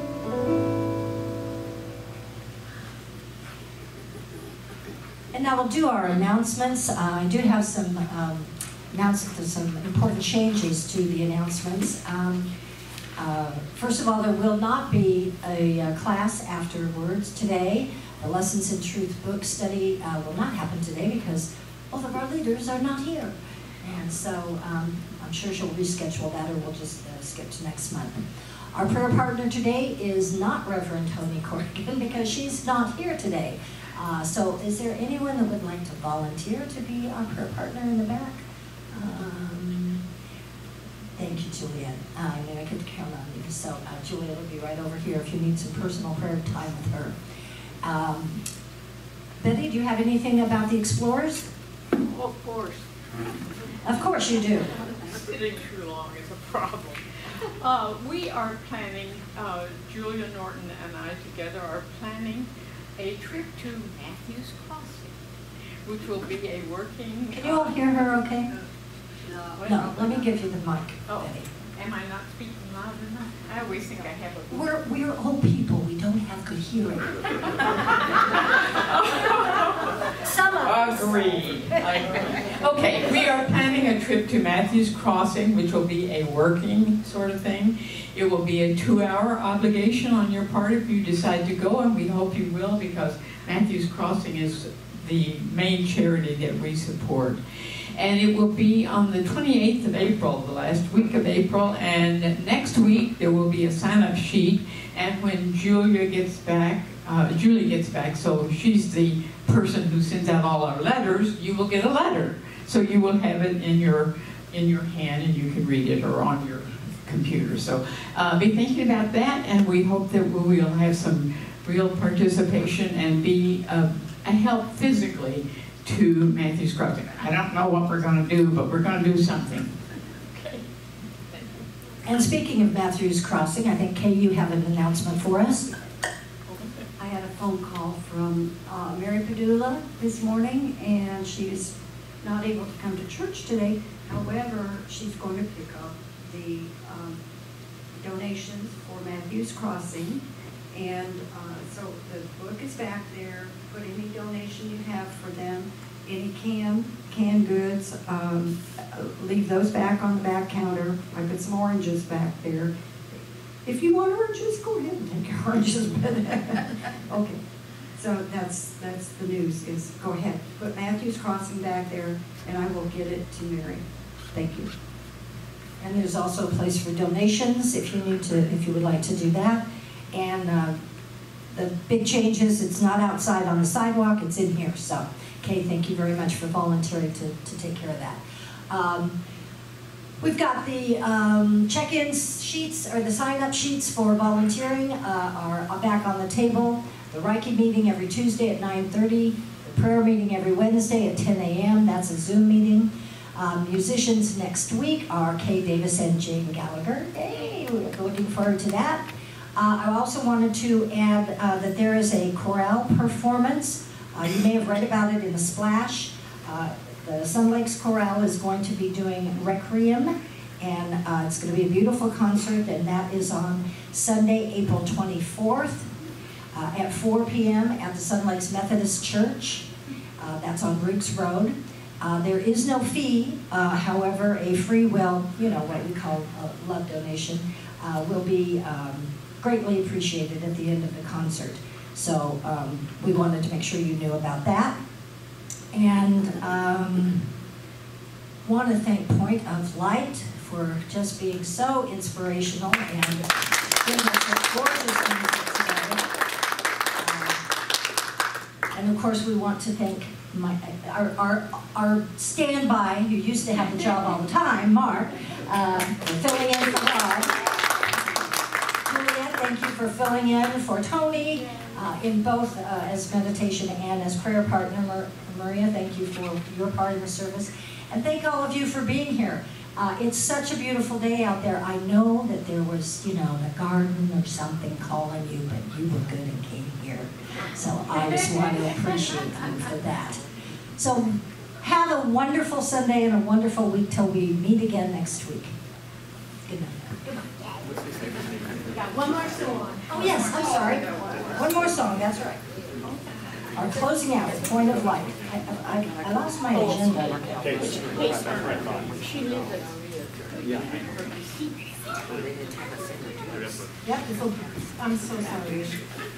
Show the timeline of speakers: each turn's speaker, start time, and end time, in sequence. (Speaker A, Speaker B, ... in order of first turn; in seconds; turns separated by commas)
Speaker A: 5.3-12.5, Speaker A: 13.2-38.4, Speaker A: 38.9-40.0, Speaker A: 41.1-47.1, Speaker A: 47.8-48.4, Speaker A: 49.4-51.5, Speaker B: 52.0-52.9, Speaker A: 53.8-54.7, Speaker B: 54.9-57.0, Speaker B: 57.6-65.2, Speaker B: 65.8-68.0, Speaker A: 67.3-68.5, Speaker B: 69.3-70.2, Speaker A: 69.6-71.5, Speaker B: 71.1-74.7, Speaker A: 74.5-77.2, Speaker B: 78.7-79.9, Speaker A: 80.2-81.4, Speaker B: 80.6-129.7, Speaker B: 130.3-130.6, Speaker B: 131.3-131.6, Speaker A: 132.0-135.7, Speaker B: 136.5-136.8, Speaker C: 137.0-147.2, Speaker C: 147.9-162.7, Speaker C: 163.7-167.4, Speaker C: 167.9-174.7, Speaker A: 175.8-180.8, Speaker A: 181.5-189.2, Speaker A: 190.2-225.9, Speaker A: 226.5-229.7, Speaker A: 230.2-244.8, Speaker A: 245.7-247.4, Speaker A: 248.4-256.1, Speaker A: 256.9-257.4, Speaker A: 258.7-267.5, Speaker A: 268.8-290.2, Speaker A: 290.8-295.5, Speaker A: 296.4-297.0, Speaker D: 298.8-300.0, Speaker A: 299.9-302.4, Speaker A: 303.5-308.0, Speaker B: 308.3-309.6, Speaker B: 310.5-311.5, Speaker D: 313.8-315.8